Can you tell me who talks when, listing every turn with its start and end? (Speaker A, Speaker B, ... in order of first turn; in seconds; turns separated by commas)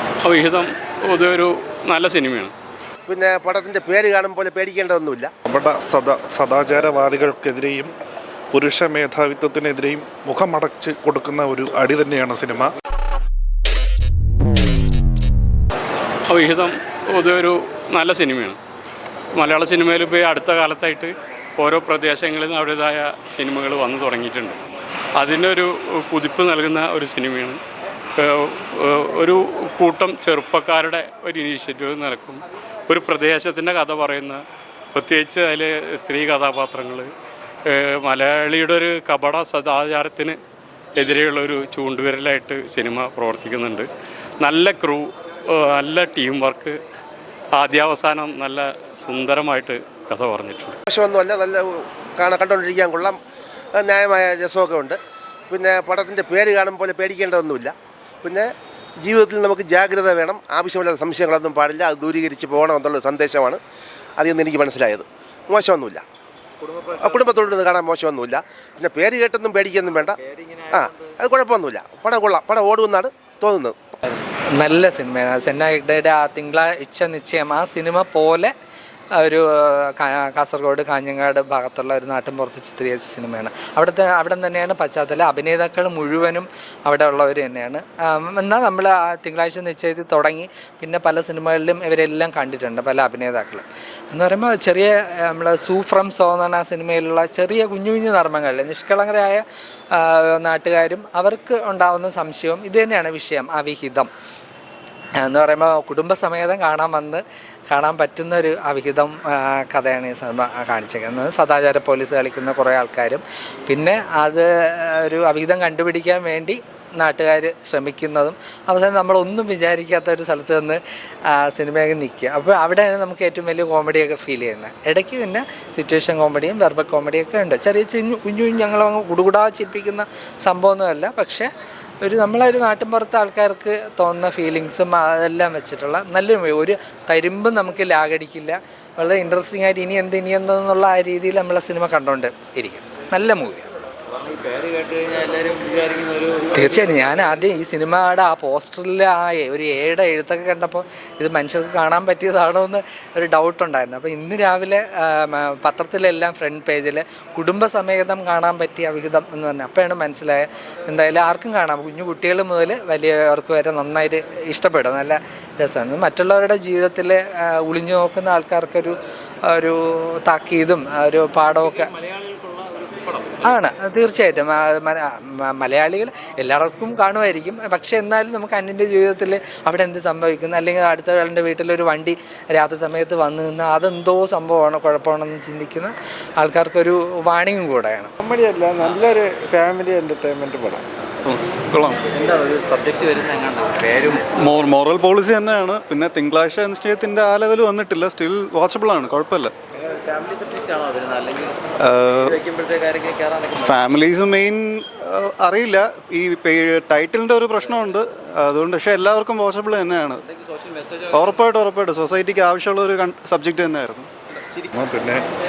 Speaker A: 0.2-2.5, Speaker B: 3.1-5.3, Speaker C: 5.5-7.9, Speaker C: 8.5-12.7, Speaker A: 16.3-18.6, Speaker A: 19.4-24.6, Speaker A: 25.2-27.6, Speaker A: 28.2-34.4, Speaker A: 34.9-37.1, Speaker A: 37.7-40.4, Speaker A: 41.0-43.9, Speaker A: 44.4-46.8, Speaker A: 47.5-50.8, Speaker B: 50.9-53.2, Speaker B: 53.8-55.0, Speaker B: 55.5-63.6, Speaker B: 64.2-66.0, Speaker B: 66.8-73.8, Speaker D: 74.5-78.5, Speaker D: 79.2-104.1, Speaker D: 105.2-131.5, Speaker D: 132.0-143.7, Speaker E: 144.4-146.4, Speaker D: 146.5-168.9, Speaker D: 169.5-171.9, Speaker E: 172.2-173.1, Speaker D: 173.4-188.1, Speaker F: 188.2-190.8, Speaker G: 191.2-192.0, Speaker E: 192.7-194.0, Speaker G: 194.3-199.5, Speaker E: 200.1-201.5, Speaker G: 201.8-202.5, Speaker E: 202.8-203.3, Speaker G: 203.5-210.2, Speaker G: 211.1-214.1, Speaker C: 214.7-215.2